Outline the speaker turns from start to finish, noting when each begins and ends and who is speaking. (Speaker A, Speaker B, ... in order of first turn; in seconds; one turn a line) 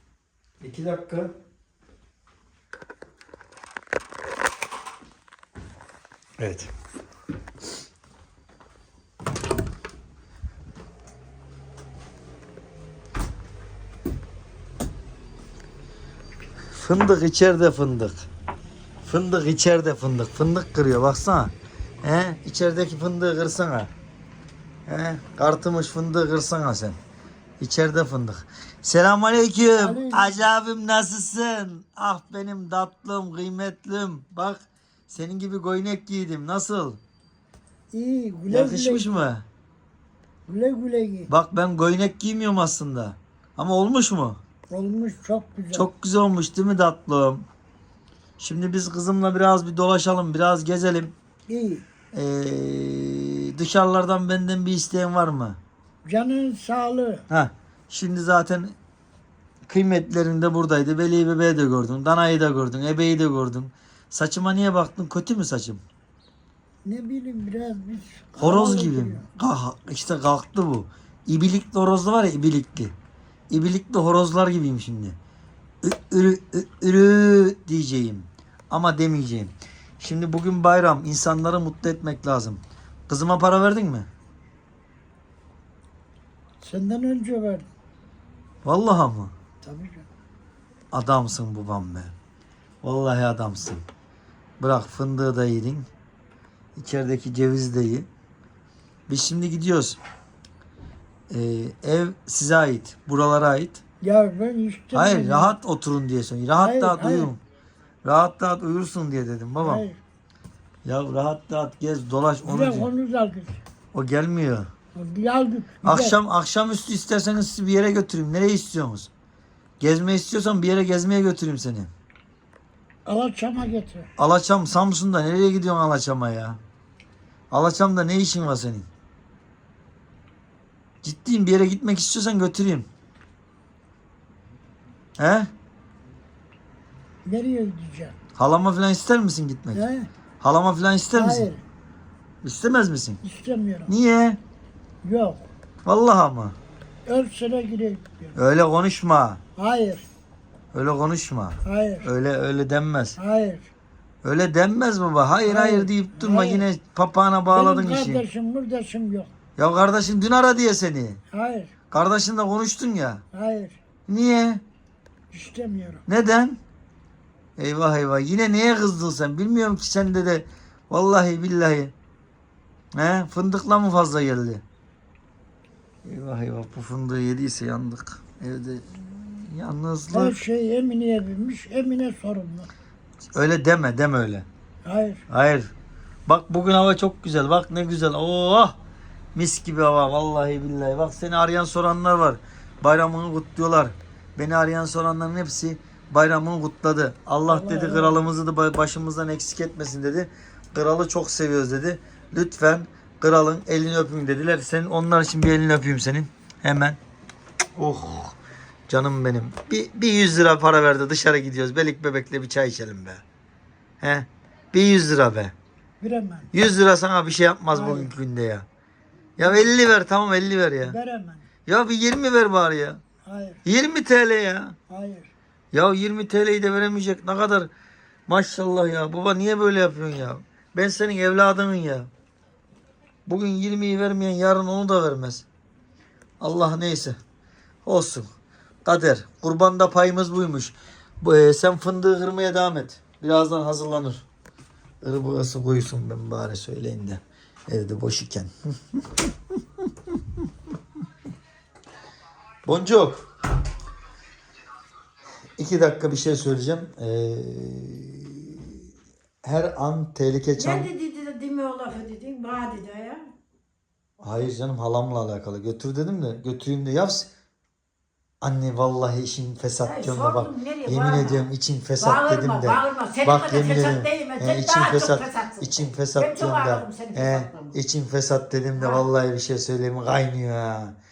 Speaker A: 0.6-1.3
Speaker A: 6.4-6.7
Speaker A: 16.7-18.3
Speaker A: 19.0-23.9
Speaker A: 24.9-27.0
Speaker A: 27.6-37.0
Speaker B: 29.8-30.3
Speaker B: 37.9-39.1
Speaker A: 38.5-39.4
Speaker B: 40.5-41.3
Speaker A: 41.3-44.4
Speaker B: 44.7-45.9
Speaker A: 45.7-47.5
Speaker A: 48.4-51.1
Speaker B: 51.5-51.8
Speaker A: 52.1-55.6
Speaker B: 56.0-57.2
Speaker A: 57.3-58.8
Speaker A: 59.7-65.8
Speaker B: 66.8-69.3
Speaker A: 68.4-72.9
Speaker A: 73.5-75.2
Speaker A: 75.8-84.1
Speaker B: 86.6-87.7
Speaker A: 88.6-89.3
Speaker B: 89.6-90.1
Speaker A: 90.9-92.1
Speaker A: 92.8-93.8
Speaker A: 94.6-95.9
Speaker A: 96.8-98.1
Speaker A: 99.1-100.0
Speaker A: 101.3-103.8
Speaker B: 104.0-105.5
Speaker A: 104.9-107.4
Speaker B: 106.6-107.3
Speaker A: 108.0-109.8
Speaker B: 109.6-110.0
Speaker A: 110.8-112.9
Speaker B: 112.4-113.6
Speaker A: 113.9-114.7
Speaker B: 114.9-116.2
Speaker A: 115.8-119.1
Speaker A: 119.8-121.9
Speaker B: 123.0-124.1
Speaker A: 124.2-126.6
Speaker A: 127.5-128.9
Speaker A: 131.0-132.9
Speaker A: 135.2-135.5
Speaker B: 137.2-138.2
Speaker A: 138.3-139.9
Speaker B: 139.7-140.1
Speaker A: 140.4-141.5
Speaker B: 141.1-141.6
Speaker A: 142.4-143.2
Speaker B: 143.2-143.9
Speaker A: 143.9-144.4
Speaker B: 145.0-145.5
Speaker A: 145.8-146.6
Speaker B: 147.1-148.3
Speaker A: 148.3-149.4
Speaker B: 149.6-150.1
Speaker A: 150.7-153.2
Speaker B: 151.6-152.1
Speaker B: 153.2-153.7
Speaker A: 154.2-158.2
Speaker B: 155.4-156.7
Speaker B: 157.5-159.3
Speaker A: 159.6-161.2
Speaker B: 161.3-161.7
Speaker A: 161.9-163.2
Speaker B: 163.3-163.8
Speaker A: 164.1-164.6
Speaker B: 165.3-166.0
Speaker A: 166.1-166.6
Speaker A: 167.6-171.9
Speaker A: 172.9-174.6
Speaker A: 176.0-180.4
Speaker B: 180.1-182.7
Speaker A: 183.3-184.5
Speaker B: 184.8-185.2
Speaker A: 185.3-185.7
Speaker A: 186.3-188.8
Speaker A: 189.3-207.0
Speaker B: 197.5-198.2
Speaker A: 207.8-208.3
Speaker A: 208.9-213.2
Speaker A: 214.0-215.5
Speaker B: 216.0-216.5
Speaker A: 216.5-218.7
Speaker B: 217.7-218.1
Speaker A: 219.4-221.0
Speaker B: 220.8-221.4
Speaker A: 221.7-223.0
Speaker B: 223.2-223.6
Speaker A: 223.6-224.8
Speaker B: 224.9-225.3
Speaker A: 225.7-227.7
Speaker A: 228.3-232.1
Speaker A: 233.2-235.4
Speaker A: 236.4-237.2
Speaker A: 237.8-238.3
Speaker A: 238.8-244.2
Speaker A: 245.0-249.0
Speaker A: 252.6-253.3
Speaker A: 255.6-258.8
Speaker A: 259.4-260.9
Speaker C: 260.6-263.2
Speaker A: 264.2-267.3
Speaker A: 268.4-280.9
Speaker C: 269.8-277.8
Speaker C: 278.8-279.1